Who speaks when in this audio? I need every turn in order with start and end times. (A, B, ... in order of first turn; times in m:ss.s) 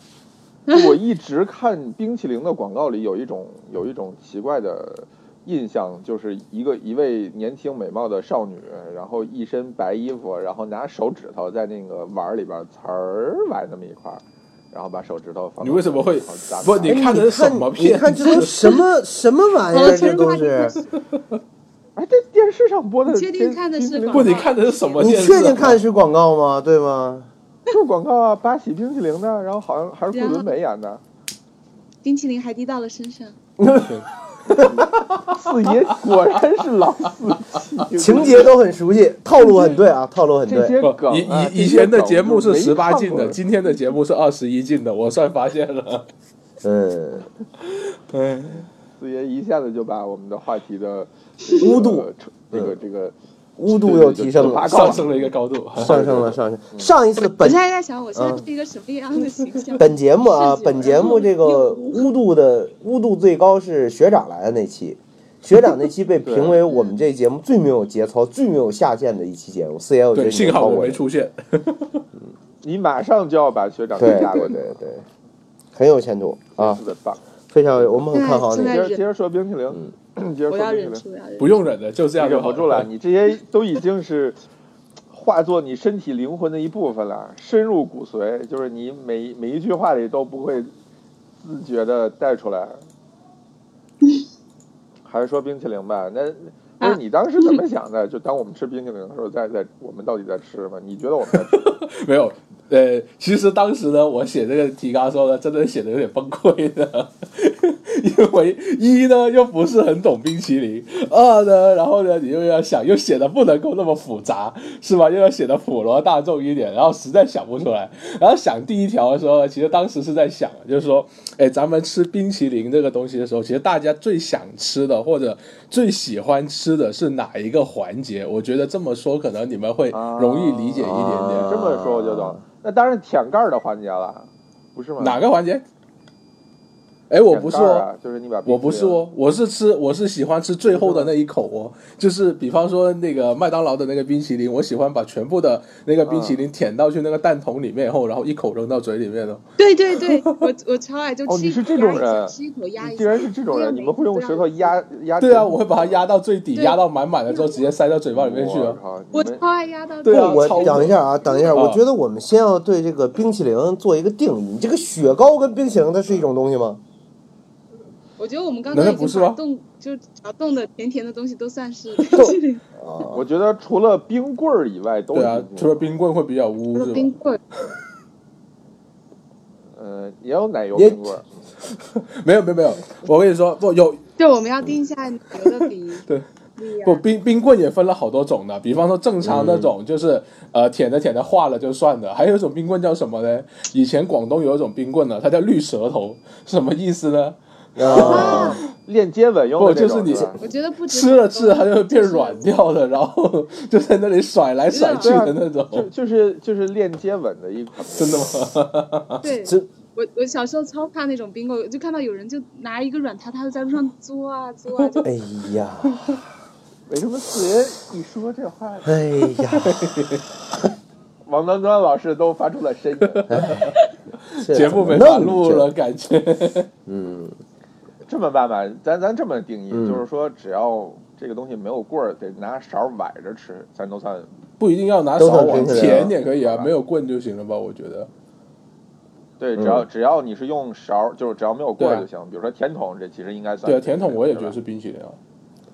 0:00.7-0:17.1 A
0:15.6-0:18.8 B
0:16.8-0:20.8 C
0:19.7-0:20.9 D
0:22.0-0:24.5 A
0:23.1-0:24.5 D
0:24.1-0:25.8 B
0:24.9-0:27.3 C
0:27.7-0:31.0 A
0:30.1-0:30.5 D
0:32.0-0:33.4 D
0:33.6-0:34.7 C
0:34.6-0:38.5 A
0:38.0-0:40.8 C
0:40.5-0:43.4 A
0:40.8-0:46.1 B
0:46.6-0:47.3 C
0:47.6-0:48.6 B
0:49.0-0:53.1 A
0:51.6-0:52.7 C
0:53.6-0:55.0 C
0:53.7-0:56.9 A
0:54.3-0:56.2 B
0:55.8-0:57.6 C
0:57.4-1:02.1 D
0:58.1-0:58.4 C
0:59.8-1:11.0 C
1:06.2-1:06.6 A
1:06.7-1:06.9 D
1:10.1-1:12.0 B
1:12.6-1:14.8 A
1:14.0-1:15.0 C
1:14.1-1:14.4 D
1:15.7-1:16.8 C
1:16.6-1:17.2 A
1:17.5-1:18.8 C
1:18.1-1:19.0 D
1:18.6-1:21.0 A
1:20.5-1:21.6 D
1:21.4-1:22.9 B
1:22.2-1:24.4 A
1:25.1-1:30.7 A
1:31.4-1:32.8 A
1:35.0-1:41.8 A
1:36.8-1:37.6 D
1:41.3-2:11.5 B
2:09.9-2:15.2 A
2:10.8-2:12.4 C
2:15.0-2:15.6 B
2:17.1-2:17.8 B
2:17.3-2:19.0 A
2:18.4-2:29.4 B
2:20.7-2:21.1 A
2:26.0-2:26.4 A
2:29.6-2:34.6 D
2:31.3-2:36.0 A
2:35.2-2:38.8 B
2:36.5-2:37.6 D
2:38.1-2:39.4 A
2:39.1-2:41.4 D
2:40.0-2:41.0 B
2:40.1-2:46.8 C
2:40.1-2:40.9 A
2:41.5-2:41.8 B
2:48.2-2:52.6 D
2:48.7-2:49.4 B
2:52.1-2:53.2 C
2:53.1-2:55.8 A
2:55.1-2:57.1 B
2:56.7-2:57.4 D
2:59.7-3:01.2 A
3:00.7-3:01.1 C
3:01.9-3:04.0 B
3:04.2-3:06.0 D
3:05.4-3:06.2 B
3:06.6-3:07.0 D
3:06.8-3:18.6 B
3:09.2-3:09.7 C
3:17.8-3:18.6 C
3:17.8-3:20.4 A
3:18.0-3:18.6 D
3:19.6-3:25.9 B
3:20.4-3:22.4 D
3:24.7-3:25.2 D
3:25.0-3:28.4 A
3:27.9-3:29.2 B
3:29.2-3:35.1 D
3:35.0-3:36.3 C
3:36.9-3:39.0 A
3:38.8-3:40.3 C
3:39.5-3:40.2 B
3:41.2-3:43.6 A
3:43.3-3:43.7 C
3:44.3-3:46.7 B
3:44.4-3:45.7 C
3:46.8-3:47.3 C
3:48.1-3:54.3 A
3:49.7-3:50.0 C
3:54.6-3:58.1 B
3:55.2-3:56.1 C
3:55.2-3:56.7 A
3:59.4-4:04.6 A
3:59.6-3:59.8 C
4:01.8-4:02.1 B
4:03.6-4:05.2 B